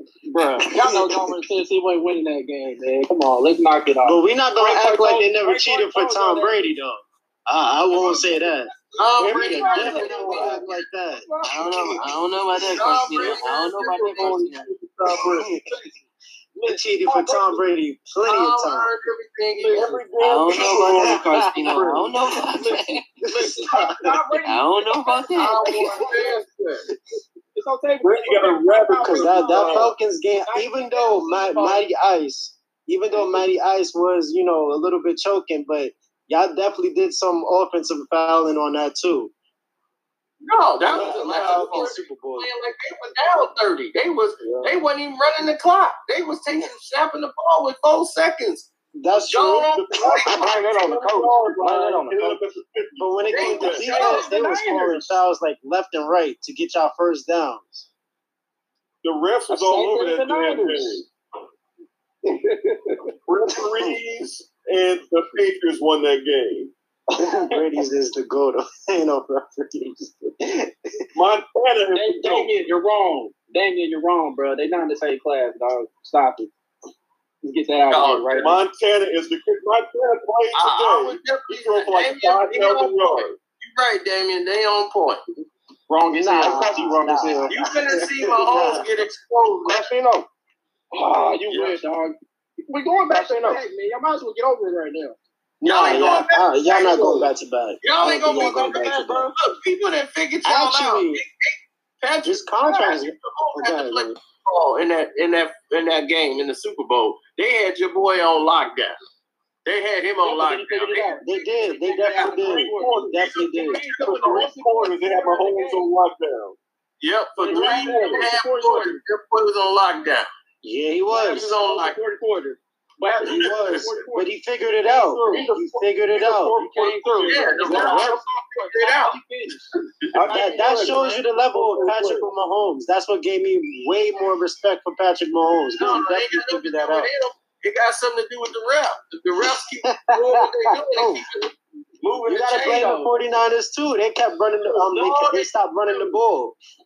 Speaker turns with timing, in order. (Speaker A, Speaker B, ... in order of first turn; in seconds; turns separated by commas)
Speaker A: 0.3-6.7, Speaker B: 4.0-8.7, Speaker C: 9.0-10.6, Speaker D: 9.2-10.2, Speaker A: 9.2-12.1, Speaker B: 9.5-11.3, Speaker E: 11.4-14.7, Speaker C: 12.6-14.5, Speaker D: 14.2-14.5, Speaker D: 15.0-15.4, Speaker B: 15.2-15.8, Speaker A: 16.6-17.6, Speaker B: 16.6-18.9, Speaker C: 18.2-20.0, Speaker D: 19.6-22.0, Speaker E: 20.2-23.1, Speaker B: 20.8-21.9, Speaker B: 23.2-24.2, Speaker A: 23.4-25.2, Speaker E: 24.4-25.8, Speaker C: 25.4-26.8, Speaker A: 25.7-25.9, Speaker A: 27.5-31.9, Speaker D: 28.0-29.9, Speaker B: 29.0-39.3, Speaker C: 40.4-50.5, Speaker B: 40.9-42.4, Speaker B: 49.0-51.7, Speaker D: 49.6-54.2, Speaker F: 50.4-52.4, Speaker B: 53.0-57.9, Speaker C: 53.3-54.3, Speaker A: 53.8-55.2, Speaker D: 59.0-61.0, Speaker A: 59.5-61.0, Speaker A: 62.6-62.9, Speaker D: 63.3-66.7, Speaker B: 67.1-70.7, Speaker D: 71.1-72.5, Speaker A: 71.9-76.5, Speaker A: 77.4-78.6, Speaker C: 77.9-78.5, Speaker D: 78.4-83.4, Speaker C: 80.5-85.2, Speaker A: 85.9-87.4, Speaker B: 86.1-88.8, Speaker C: 87.5-89.8, Speaker F: 89.7-90.0, Speaker A: 90.9-95.2, Speaker B: 95.6-99.3, Speaker C: 95.6-97.3, Speaker C: 97.8-109.0, Speaker B: 100.4-101.2, Speaker B: 102.2-104.2, Speaker C: 109.6-111.2, Speaker A: 110.2-115.9, Speaker B: 111.2-113.8, Speaker D: 112.2-116.6, Speaker C: 117.0-120.3, Speaker A: 117.4-119.0, Speaker D: 117.4-118.3, Speaker B: 120.6-121.5, Speaker A: 121.1-125.6, Speaker C: 121.2-122.0, Speaker B: 123.2-126.5, Speaker C: 123.4-123.8, Speaker D: 125.2-128.0, Speaker A: 126.5-129.6, Speaker C: 127.2-129.2, Speaker B: 127.7-128.2, Speaker D: 130.1-132.2, Speaker B: 130.3-137.1, Speaker A: 130.4-130.9, Speaker C: 135.8-141.5, Speaker B: 139.8-141.2, Speaker A: 142.0-143.2, Speaker B: 142.2-146.6, Speaker C: 142.4-142.9, Speaker C: 144.7-146.1